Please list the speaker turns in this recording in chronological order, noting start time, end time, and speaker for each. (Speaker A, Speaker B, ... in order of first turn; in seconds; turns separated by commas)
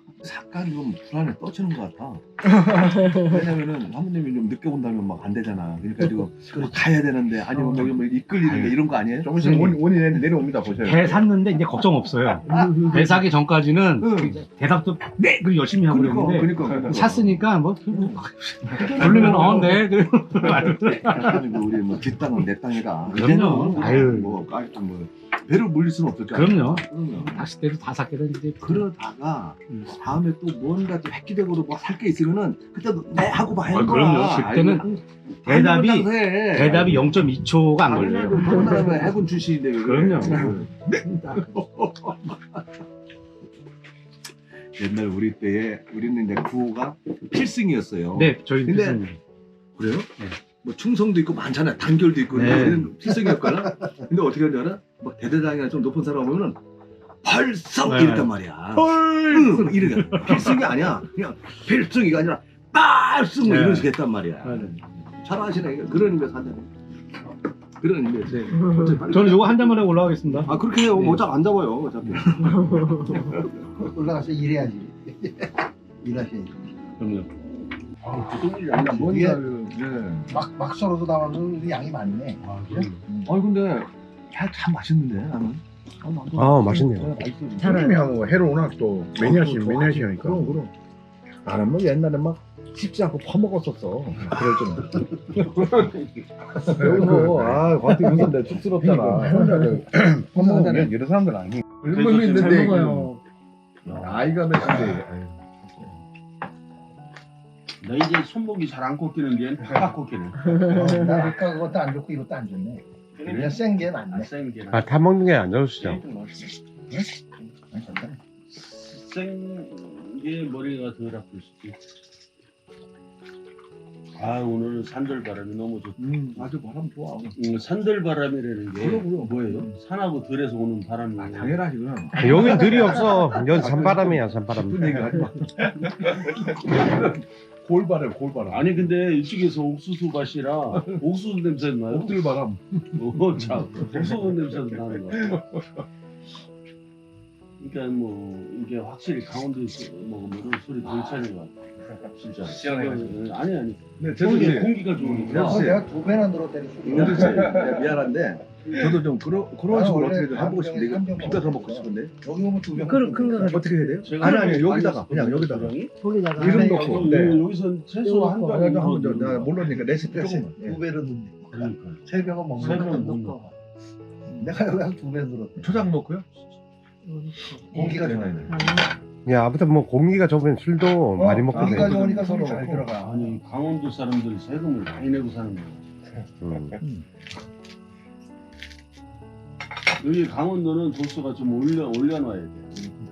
Speaker A: 0.2-9.3, Speaker B: 6.5-6.8, Speaker B: 7.5-9.9, Speaker C: 9.2-10.7, Speaker A: 10.7-11.3, Speaker B: 10.8-21.4, Speaker A: 12.5-13.2, Speaker A: 14.0-14.4, Speaker A: 15.8-17.4, Speaker A: 18.7-27.4, Speaker B: 23.1-24.4, Speaker B: 26.3-28.9, Speaker A: 28.6-37.0, Speaker B: 33.6-34.9, Speaker B: 35.4-39.0, Speaker A: 37.8-42.4, Speaker B: 39.8-40.6, Speaker A: 44.8-49.0, Speaker B: 48.1-49.2, Speaker A: 49.8-56.6, Speaker B: 52.3-53.2, Speaker A: 57.2-66.7, Speaker B: 57.8-60.9, Speaker B: 63.4-64.8, Speaker A: 67.8-69.8, Speaker D: 68.5-69.0, Speaker B: 68.7-71.3, Speaker A: 70.4-73.5, Speaker D: 72.7-73.2, Speaker E: 73.7-76.7, Speaker B: 77.0-77.3, Speaker F: 78.0-79.1, Speaker E: 78.8-79.5, Speaker A: 78.8-80.4, Speaker E: 80.3-83.3, Speaker A: 82.8-87.8, Speaker G: 86.4-87.1, Speaker D: 87.6-88.1, Speaker C: 87.8-90.6, Speaker E: 89.1-90.7, Speaker A: 91.4-95.7, Speaker F: 95.0-96.3, Speaker A: 96.5-103.1, Speaker E: 96.6-97.3, Speaker E: 97.8-100.9, Speaker C: 99.8-101.8, Speaker F: 101.8-102.8, Speaker D: 102.3-103.2, Speaker F: 103.8-104.4, Speaker A: 103.9-105.2, Speaker F: 107.8-110.8, Speaker E: 110.6-114.3, Speaker F: 113.2-114.9, Speaker G: 114.7-116.0, Speaker C: 115.8-116.5, Speaker E: 116.9-118.2, Speaker F: 118.6-121.8, Speaker F: 124.1-126.5, Speaker A: 126.0-127.3, Speaker F: 127.3-131.7, Speaker A: 128.8-129.7, Speaker A: 131.2-138.8, Speaker G: 132.2-135.2, Speaker F: 132.2-133.4, Speaker F: 138.5-142.3, Speaker A: 141.9-144.3, Speaker F: 142.9-145.4, Speaker A: 145.1-145.6, Speaker F: 147.6-151.5, Speaker F: 152.1-155.7, Speaker A: 152.4-153.2, Speaker A: 154.0-155.9, Speaker E: 155.3-158.0, Speaker F: 156.8-157.7, Speaker A: 156.9-162.1, Speaker E: 159.7-164.3, Speaker D: 162.8-163.6, Speaker A: 163.4-165.8, Speaker F: 164.0-165.9, Speaker D: 166.0-167.0, Speaker A: 166.3-167.5, Speaker E: 166.4-167.2, Speaker F: 166.5-169.7, Speaker D: 168.0-168.6, Speaker A: 168.1-170.8, Speaker E: 169.7-173.5, Speaker F: 171.5-173.5, Speaker D: 172.6-172.9, Speaker E: 174.3-175.8, Speaker A: 175.6-176.2, Speaker D: 177.0-178.9, Speaker E: 177.7-178.5, Speaker A: 177.7-178.7, Speaker G: 179.2-181.9, Speaker E: 181.2-183.4, Speaker A: 181.5-183.0, Speaker F: 182.2-185.8, Speaker G: 186.4-186.8, Speaker A: 186.8-187.0, Speaker F: 190.0-192.8